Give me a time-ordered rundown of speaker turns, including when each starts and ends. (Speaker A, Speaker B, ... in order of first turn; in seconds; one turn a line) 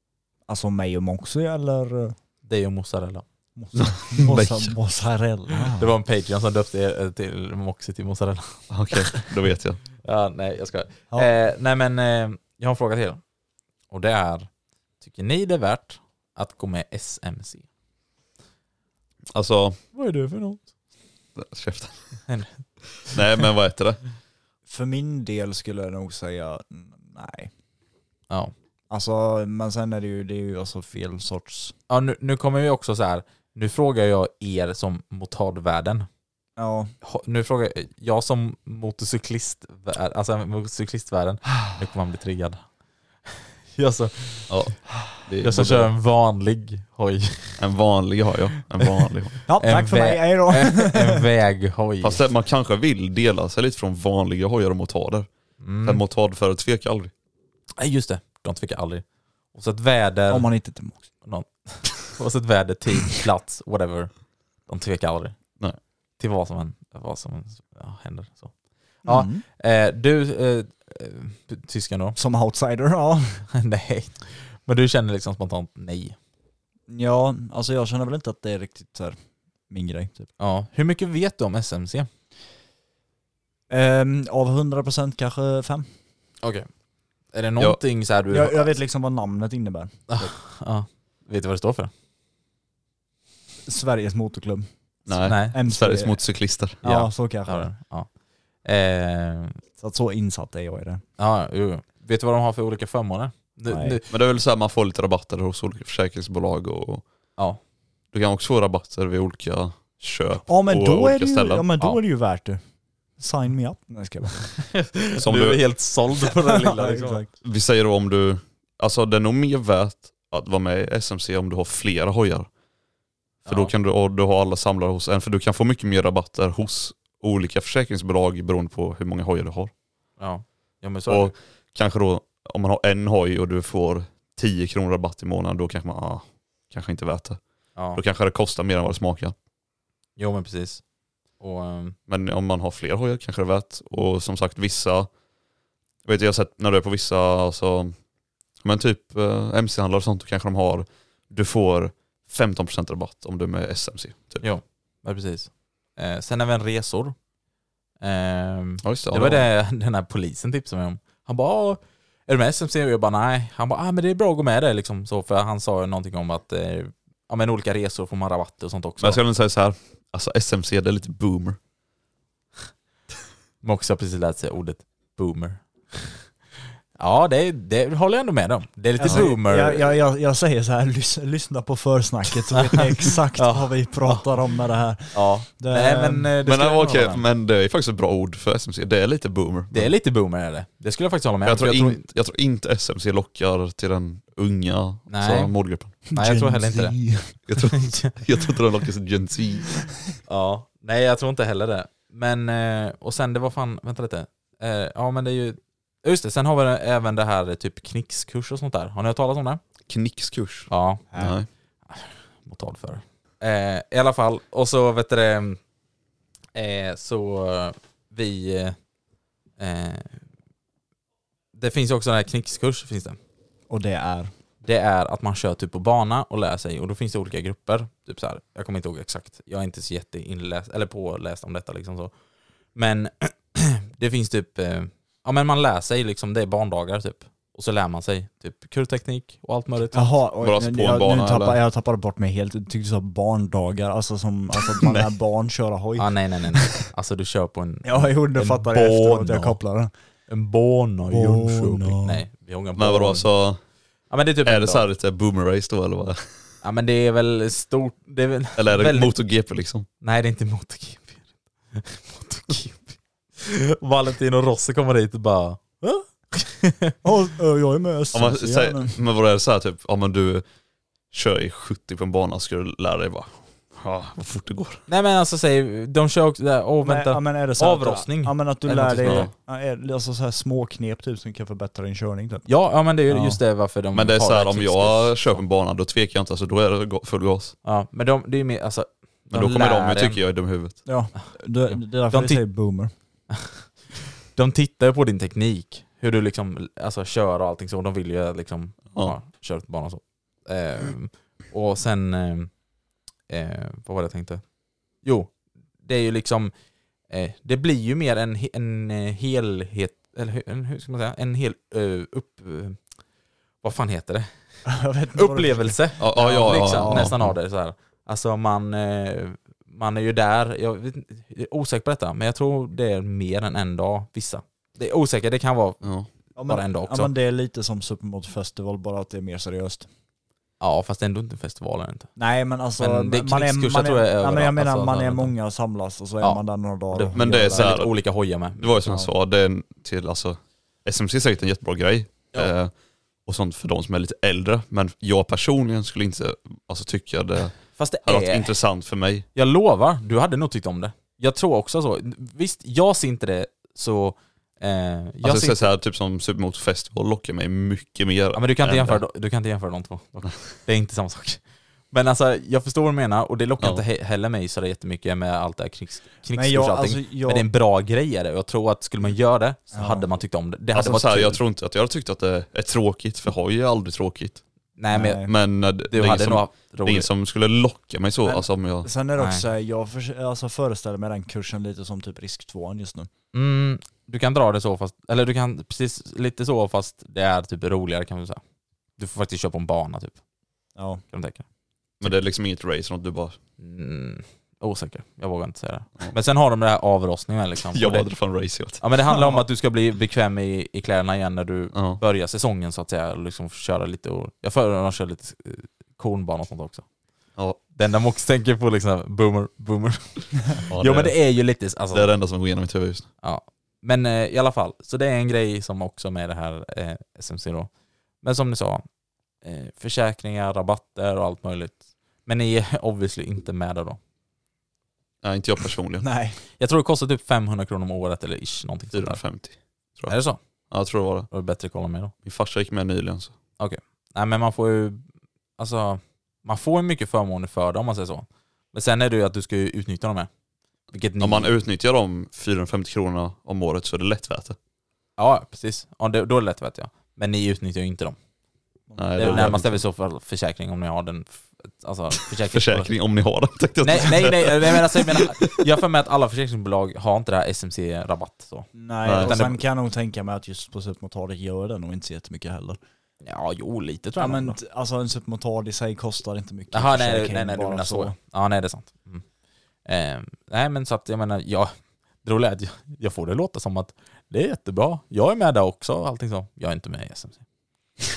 Speaker A: 0.5-2.1
Speaker B: 2.5-3.2
Speaker A: 3.6-5.9
Speaker C: 4.2-4.7
Speaker B: 5.8-8.7
Speaker C: 8.7-9.8
Speaker B: 10.0-13.2
Speaker B: 13.9-14.5
Speaker B: 15.0-17.7
Speaker C: 19.3-19.8
Speaker B: 19.9-20.6
Speaker C: 21.4-22.1
Speaker C: 23.1-24.0
Speaker A: 24.7-27.5
Speaker A: 28.9-31.8
Speaker B: 31.9-36.1
Speaker A: 36.6-36.9
Speaker B: 37.0-42.6
Speaker B: 43.3-44.5
Speaker C: 44.5-45.9
Speaker B: 45.4-47.6
Speaker C: 47.6-49.4
Speaker A: 49.5-51.2
Speaker B: 49.6-52.2
Speaker C: 52.0-55.3
Speaker B: 55.6-56.0
Speaker C: 55.8-57.1
Speaker B: 57.8-60.5
Speaker A: 60.3-61.0
Speaker B: 61.2-65.4
Speaker B: 66.2-72.2
Speaker A: 69.0-69.5
Speaker A: 72.2-73.5
Speaker B: 73.5-76.2
Speaker A: 76.9-79.2
Speaker A: 79.7-80.3
Speaker B: 80.4-82.1
Speaker A: 83.7-85.9
Speaker B: 86.4-86.7
Speaker B: 87.3-88.7
Speaker A: 88.3-90.3
Speaker B: 90.1-91.9
Speaker A: 93.7-94.7
Speaker C: 95.1-96.8
Speaker B: 95.2-95.6
Speaker A: 95.3-96.2
Speaker A: 96.8-97.7
Speaker B: 96.8-98.1
Speaker B: 98.6-99.6
Speaker A: 99.8-101.0
Speaker B: 101.2-104.0
Speaker A: 103.7-104.0
Speaker C: 104.1-107.0
Speaker C: 108.1-111.7
Speaker A: 110.5-112.6
Speaker A: 113.2-114.6
Speaker B: 114.7-117.2
Speaker C: 115.2-115.6
Speaker A: 116.5-117.3
Speaker C: 117.4-122.5
Speaker B: 123.5-123.7
Speaker C: 123.5-129.7
Speaker B: 130.2-131.3
Speaker C: 131.1-137.4
Speaker B: 137.8-138.0
Speaker C: 137.9-139.3
Speaker B: 140.2-140.8
Speaker B: 141.4-142.0
Speaker C: 142.1-145.1
Speaker C: 146.1-147.9
Speaker C: 148.6-154.4
Speaker B: 154.4-157.2
Speaker B: 158.0-169.2
Speaker C: 158.8-159.5
Speaker C: 169.0-171.6
Speaker B: 173.6-176.2
Speaker B: 177.0-180.0
Speaker A: 179.0-186.3
Speaker B: 183.4-184.2
Speaker B: 185.1-187.2
Speaker C: 186.4-189.9
Speaker B: 189.7-192.0
Speaker C: 191.5-196.0
Speaker B: 195.1-197.0
Speaker A: 196.1-197.4
Speaker C: 197.5-199.8
Speaker B: 197.8-198.2
Speaker B: 200.3-209.6
Speaker C: 209.9-211.5
Speaker B: 210.7-211.1
Speaker B: 211.9-215.6
Speaker B: 216.6-218.8
Speaker B: 219.6-220.2
Speaker B: 221.6-223.2
Speaker A: 223.7-224.3
Speaker B: 224.6-232.1
Speaker B: 232.8-240.2
Speaker A: 239.9-246.7
Speaker C: 240.4-241.6
Speaker B: 246.0-249.6
Speaker A: 247.8-249.9
Speaker B: 250.3-253.3
Speaker A: 251.1-252.2
Speaker C: 252.8-253.6
Speaker B: 254.1-254.8
Speaker C: 254.4-256.3
Speaker B: 256.6-259.1
Speaker C: 258.6-259.9
Speaker B: 260.0-261.2
Speaker B: 261.7-267.0
Speaker A: 267.0-269.0
Speaker C: 268.1-270.4
Speaker C: 271.1-274.9
Speaker B: 274.9-279.3
Speaker A: 276.8-282.5
Speaker C: 279.0-279.3
Speaker B: 282.5-285.4
Speaker A: 283.1-283.4
Speaker C: 283.9-287.6
Speaker B: 287.6-290.2
Speaker C: 289.3-290.8
Speaker A: 290.9-292.9
Speaker B: 291.7-292.4
Speaker B: 293.4-293.7
Speaker B: 294.3-302.5
Speaker B: 303.3-304.4
Speaker B: 305.0-306.5
Speaker B: 307.1-312.8
Speaker B: 313.6-314.3
Speaker A: 314.7-317.1
Speaker B: 315.1-327.1
Speaker C: 316.0-317.4
Speaker C: 325.8-326.1
Speaker A: 326.4-329.9
Speaker B: 330.6-332.1
Speaker A: 332.2-337.8
Speaker B: 332.8-335.4
Speaker B: 336.9-338.9
Speaker C: 337.1-337.9
Speaker C: 338.6-342.7
Speaker C: 343.2-349.3
Speaker B: 347.8-348.5
Speaker B: 349.4-355.6
Speaker C: 355.2-359.0
Speaker B: 358.3-361.4
Speaker B: 361.9-371.4
Speaker A: 366.3-367.5
Speaker A: 369.7-370.1
Speaker C: 370.7-374.4
Speaker B: 374.8-375.3
Speaker A: 374.9-375.3
Speaker C: 375.3-378.9
Speaker B: 375.9-377.1
Speaker A: 378.2-383.1
Speaker B: 379.2-379.4
Speaker B: 383.3-388.4
Speaker B: 389.0-390.2
Speaker A: 390.8-391.0
Speaker B: 391.1-391.4
Speaker C: 392.0-393.4
Speaker B: 393.6-398.1
Speaker C: 397.7-398.8
Speaker B: 398.8-406.9
Speaker A: 399.1-399.4
Speaker C: 401.7-402.0
Speaker B: 407.8-412.1
Speaker C: 410.7-411.2
Speaker C: 411.9-413.1
Speaker B: 413.2-417.7
Speaker B: 418.2-418.8
Speaker B: 419.4-424.0
Speaker C: 425.2-426.1
Speaker A: 426.0-426.4
Speaker B: 426.6-429.2
Speaker C: 428.9-430.2
Speaker B: 430.1-430.4
Speaker C: 430.7-431.3
Speaker B: 431.3-432.1
Speaker C: 432.2-433.3
Speaker B: 433.6-435.0
Speaker B: 435.6-440.3
Speaker B: 440.9-441.5
Speaker C: 441.2-444.6
Speaker B: 445.2-448.2
Speaker A: 448.9-449.6
Speaker C: 449.0-449.8
Speaker B: 449.2-452.9
Speaker C: 452.5-455.6
Speaker B: 453.8-459.6
Speaker A: 458.8-462.8
Speaker C: 459.0-459.4
Speaker B: 463.2-464.6
Speaker A: 464.2-468.1
Speaker B: 466.7-469.2
Speaker B: 469.9-471.7
Speaker B: 472.2-477.4